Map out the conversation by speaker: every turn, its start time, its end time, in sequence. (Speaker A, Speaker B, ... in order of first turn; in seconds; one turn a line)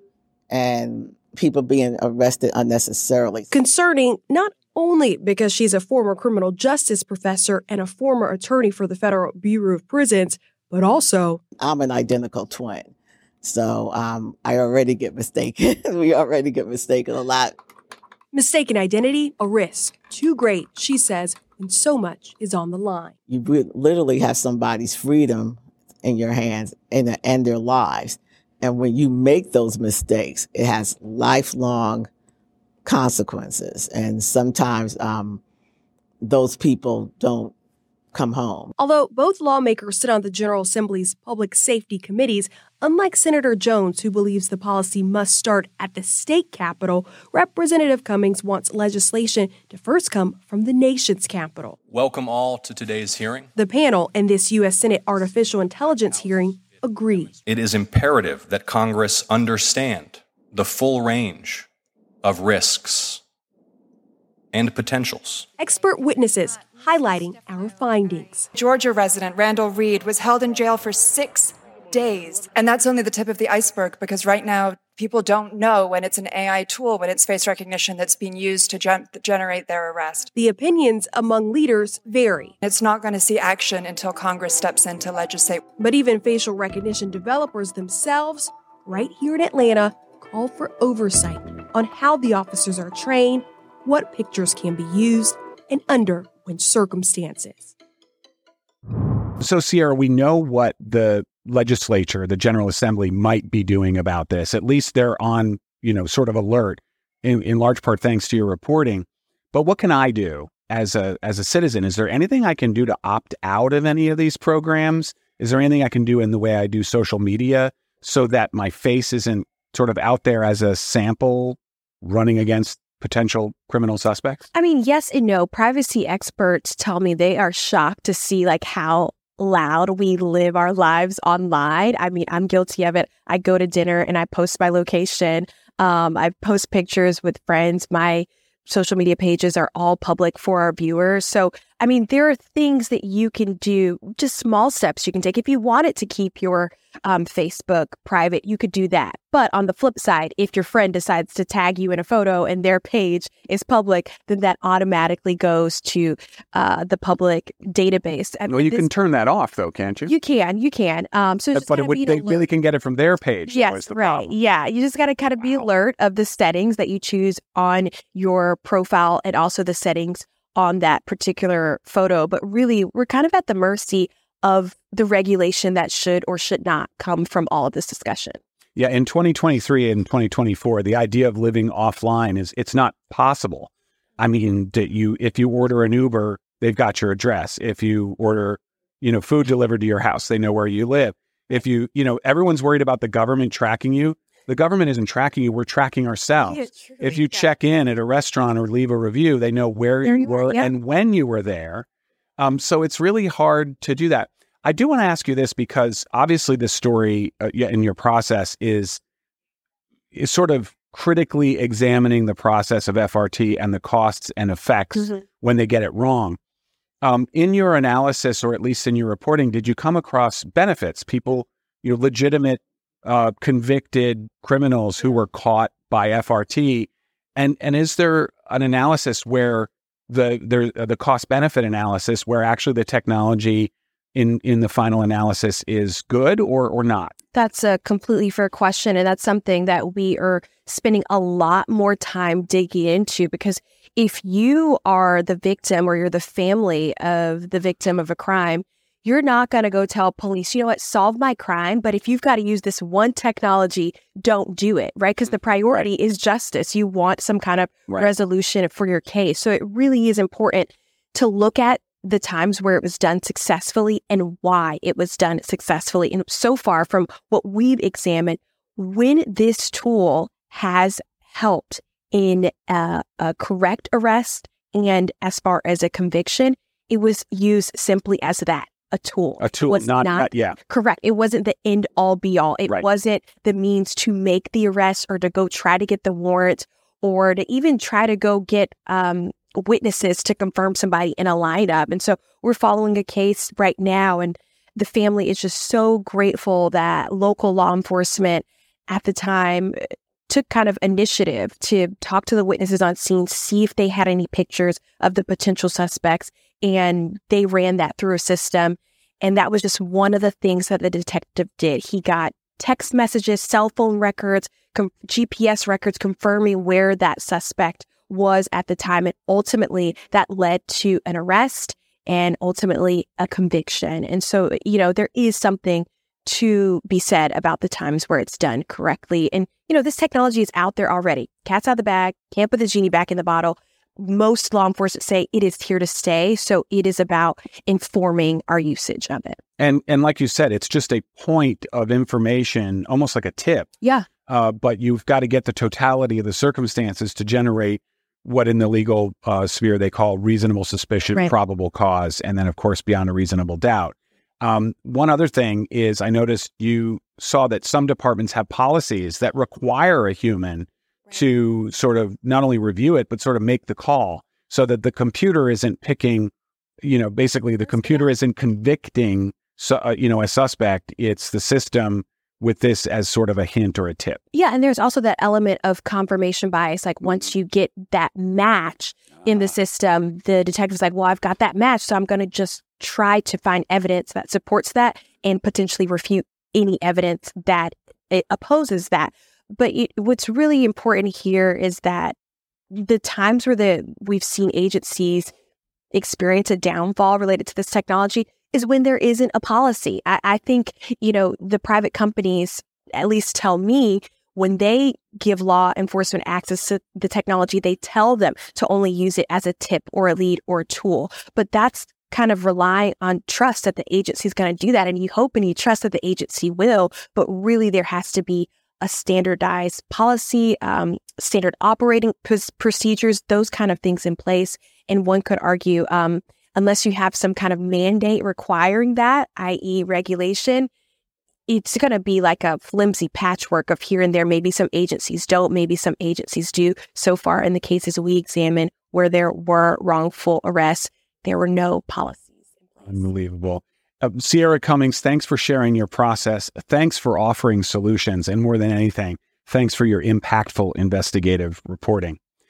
Speaker A: 0.5-3.5
Speaker B: 3.5-11.4
Speaker A: 11.6-17.6
Speaker B: 18.3-23.1
Speaker A: 23.3-32.1
Speaker A: 32.8-35.4
Speaker A: 36.2-37.5
Speaker A: 38.1-38.7
Speaker B: 38.8-51.8
Speaker C: 51.9-53.5
Speaker B: 53.5-57.4
Speaker C: 57.4-61.7
Speaker C: 62.2-63.2
Speaker C: 64.5-65.5
Speaker B: 65.6-68.5
Speaker D: 68.5-80.3
Speaker B: 80.3-82.5
Speaker D: 82.6-85.6
Speaker B: 85.8-97.7
Speaker E: 99.4-124.4
Speaker F: 124.5-158.9
Speaker E: 158.5-160.1
Speaker F: 160.1-162.4
Speaker E: 161.5-164.3
Speaker F: 163.5-178.4
Speaker E: 178.8-201.8
Speaker F: 196.4-197.4
Speaker F: 200.0-200.7
Speaker E: 202.4-209.0
Speaker E: 210.1-216.4
Speaker F: 214.9-215.2
Speaker E: 217.0-237.2
Speaker F: 237.3-339.4
Speaker E: 279.4-280.6
Speaker E: 339.6-343.7
Speaker F: 343.8-344.1
Speaker E: 344.3-366.3
Speaker E: 366.8-374.2
Speaker F: 374.3-392.1
Speaker E: 379.2-379.5
Speaker F: 392.7-395.3
Speaker F: 395.9-430.7
Speaker F: 431.5-443.1
Speaker E: 442.9-452.2